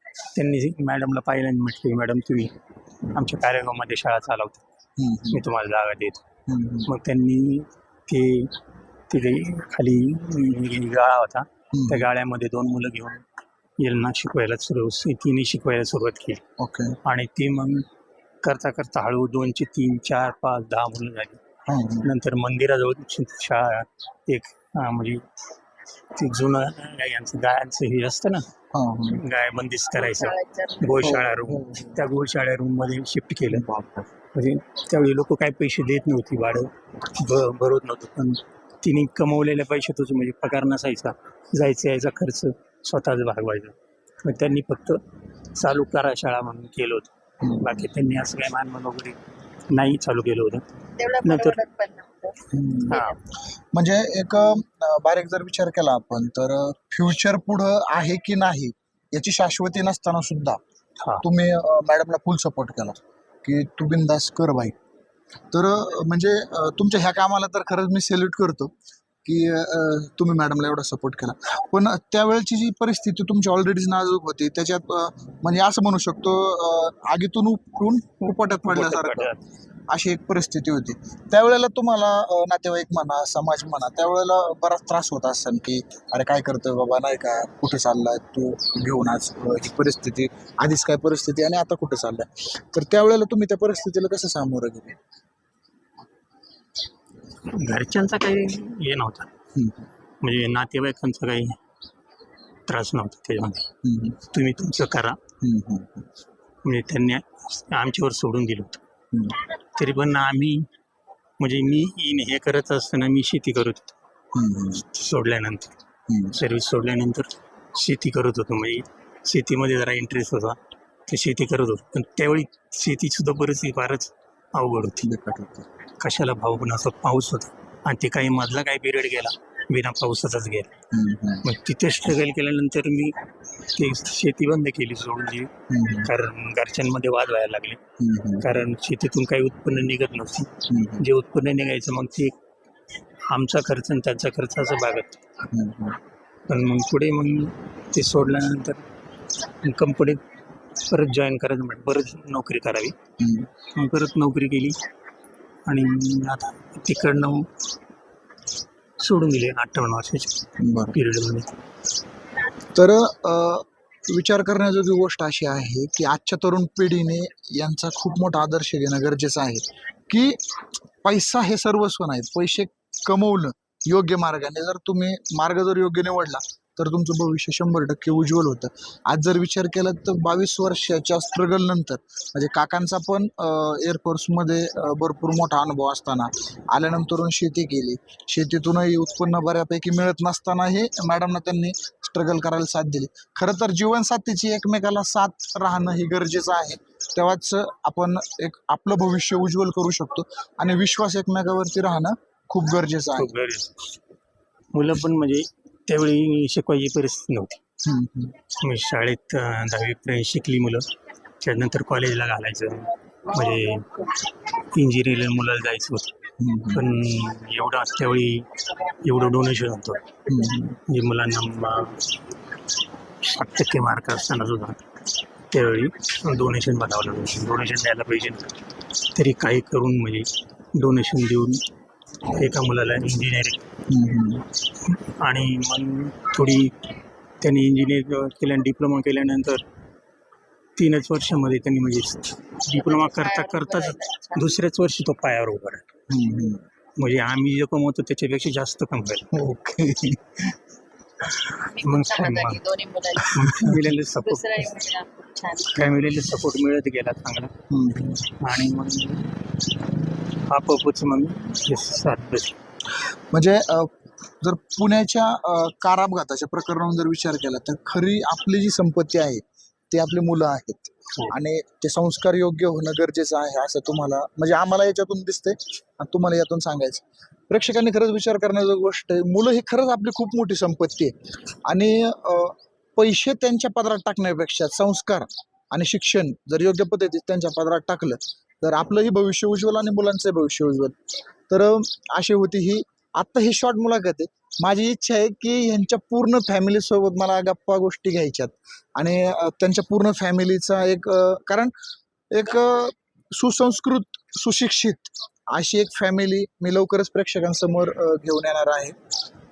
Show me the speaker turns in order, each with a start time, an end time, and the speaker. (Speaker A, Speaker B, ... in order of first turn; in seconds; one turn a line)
Speaker A: 0.3-2.5
Speaker A: 3.1-4.6
Speaker B: 5.0-5.4
Speaker A: 5.3-6.2
Speaker B: 6.5-6.9
Speaker A: 6.9-8.6
Speaker A: 9.1-13.2
Speaker B: 11.7-12.0
Speaker A: 13.8-16.4
Speaker B: 16.6-17.0
Speaker A: 17.1-17.9
Speaker A: 18.4-21.4
Speaker B: 21.7-22.1
Speaker A: 22.0-25.2
Speaker A: 26.1-28.5
Speaker B: 28.7-29.2
Speaker A: 29.1-33.7
Speaker C: 30.1-31.1
Speaker B: 31.0-32.0
Speaker B: 33.5-34.1
Speaker A: 34.3-45.0
Speaker A: 45.5-49.2
Speaker B: 47.4-47.8
Speaker A: 49.7-50.6
Speaker C: 51.0-53.2
Speaker A: 51.2-51.6
Speaker B: 52.5-53.1
Speaker A: 52.9-53.2
Speaker B: 53.7-60.6
Speaker B: 61.2-64.8
Speaker B: 65.5-68.7
Speaker B: 69.2-79.3
Speaker A: 78.3-79.4
Speaker B: 79.9-95.0
Speaker A: 97.5-99.3
Speaker B: 99.5-99.9
Speaker A: 100.2-101.6
Speaker A: 102.7-103.7
Speaker B: 103.8-104.2
Speaker A: 104.2-105.2
Speaker B: 105.4-106.1
Speaker A: 106.7-108.8
Speaker B: 109.1-109.4
Speaker A: 109.8-110.7
Speaker A: 111.4-113.9
Speaker B: 114.3-114.8
Speaker A: 114.8-115.7
Speaker B: 116.1-116.4
Speaker A: 116.3-125.1
Speaker B: 125.0-125.7
Speaker A: 126.0-130.7
Speaker B: 130.9-131.5
Speaker A: 131.4-135.5
Speaker B: 135.7-136.1
Speaker A: 136.0-137.8
Speaker B: 138.0-138.5
Speaker A: 138.4-142.3
Speaker B: 140.7-141.1
Speaker A: 143.3-145.2
Speaker B: 145.5-146.0
Speaker A: 146.5-148.8
Speaker A: 149.4-150.2
Speaker A: 150.8-152.9
Speaker B: 153.2-153.5
Speaker A: 153.7-154.8
Speaker A: 155.7-157.5
Speaker A: 159.0-161.6
Speaker B: 160.6-161.0
Speaker B: 162.8-170.4
Speaker B: 171.0-203.3
Speaker A: 203.1-203.8
Speaker A: 204.7-207.6
Speaker B: 207.8-208.4
Speaker A: 208.5-210.9
Speaker A: 211.4-216.1
Speaker B: 216.4-216.8
Speaker A: 216.7-220.1
Speaker B: 220.3-220.8
Speaker A: 220.7-222.2
Speaker A: 223.2-224.8
Speaker A: 225.5-231.6
Speaker A: 232.3-233.6
Speaker B: 233.9-234.5
Speaker A: 234.8-236.8
Speaker A: 237.4-239.6
Speaker A: 240.8-245.8
Speaker C: 242.8-244.5
Speaker B: 246.1-246.7
Speaker A: 247.0-249.4
Speaker B: 249.3-250.6
Speaker A: 251.2-254.7
Speaker C: 251.6-253.4
Speaker B: 253.4-253.8
Speaker C: 254.2-255.8
Speaker A: 255.7-257.5
Speaker B: 257.7-258.4
Speaker A: 258.3-259.4
Speaker A: 260.5-262.6
Speaker B: 263.3-281.1
Speaker B: 281.7-291.0
Speaker B: 291.5-301.7
Speaker B: 302.3-309.0